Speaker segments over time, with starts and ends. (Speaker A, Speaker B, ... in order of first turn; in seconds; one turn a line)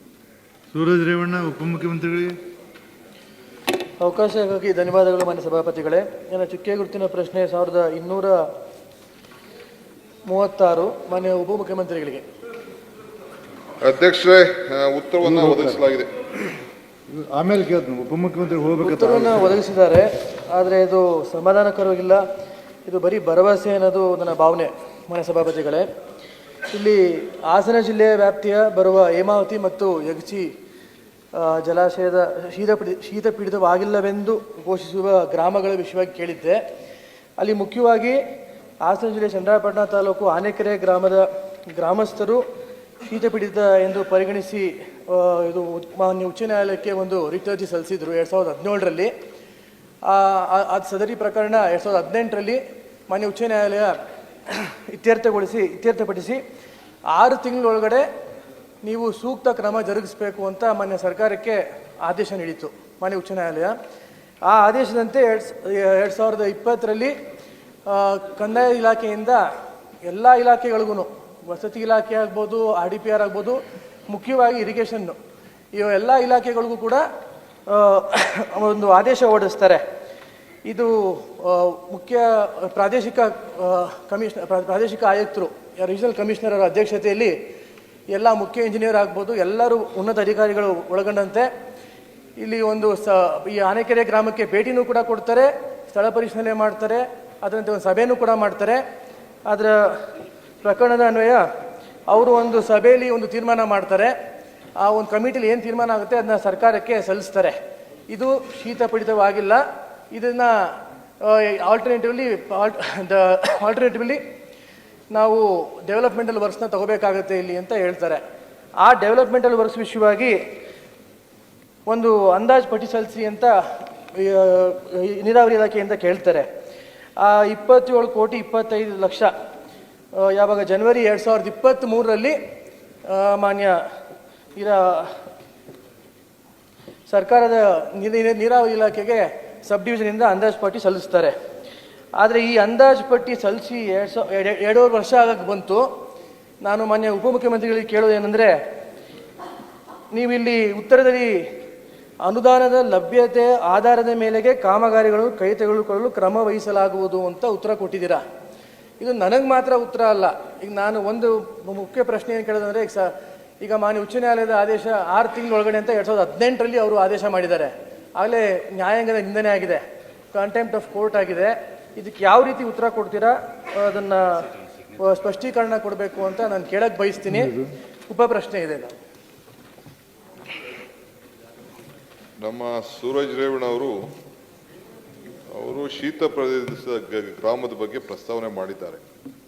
Speaker A: 0.7-2.4
Speaker B: 4.0-8.4
Speaker B: 10.3-12.2
Speaker C: 13.8-16.1
Speaker A: 15.2-15.8
Speaker A: 17.1-19.6
Speaker B: 18.8-22.2
Speaker B: 22.9-25.8
Speaker B: 26.7-30.5
Speaker B: 31.3-36.6
Speaker B: 37.4-38.2
Speaker B: 38.8-42.4
Speaker B: 43.0-49.1
Speaker B: 50.1-53.9
Speaker B: 54.5-56.4
Speaker B: 57.1-58.0
Speaker B: 58.8-63.7
Speaker B: 64.5-67.1
Speaker B: 67.9-69.4
Speaker B: 70.0-73.6
Speaker B: 74.1-75.2
Speaker B: 75.7-77.0
Speaker B: 77.7-79.8
Speaker B: 80.7-87.3
Speaker B: 88.1-91.5
Speaker B: 92.4-98.8
Speaker B: 99.5-99.8
Speaker B: 100.6-101.4
Speaker B: 102.1-104.1
Speaker B: 104.8-107.5
Speaker B: 108.1-109.6
Speaker B: 110.1-110.5
Speaker B: 111.2-114.2
Speaker B: 115.1-118.2
Speaker B: 118.8-120.3
Speaker B: 121.9-123.5
Speaker B: 124.2-126.5
Speaker B: 127.2-129.3
Speaker B: 130.2-132.3
Speaker B: 133.1-133.8
Speaker B: 134.6-135.1
Speaker B: 137.1-141.3
Speaker B: 142.2-145.8
Speaker B: 146.6-148.5
Speaker B: 150.1-151.3
Speaker B: 152.2-158.2
Speaker B: 159.0-169.8
Speaker B: 170.3-174.4
Speaker B: 175.0-177.5
Speaker A: 177.3-177.7
Speaker B: 178.1-178.9
Speaker C: 182.4-183.9
Speaker C: 185.5-189.0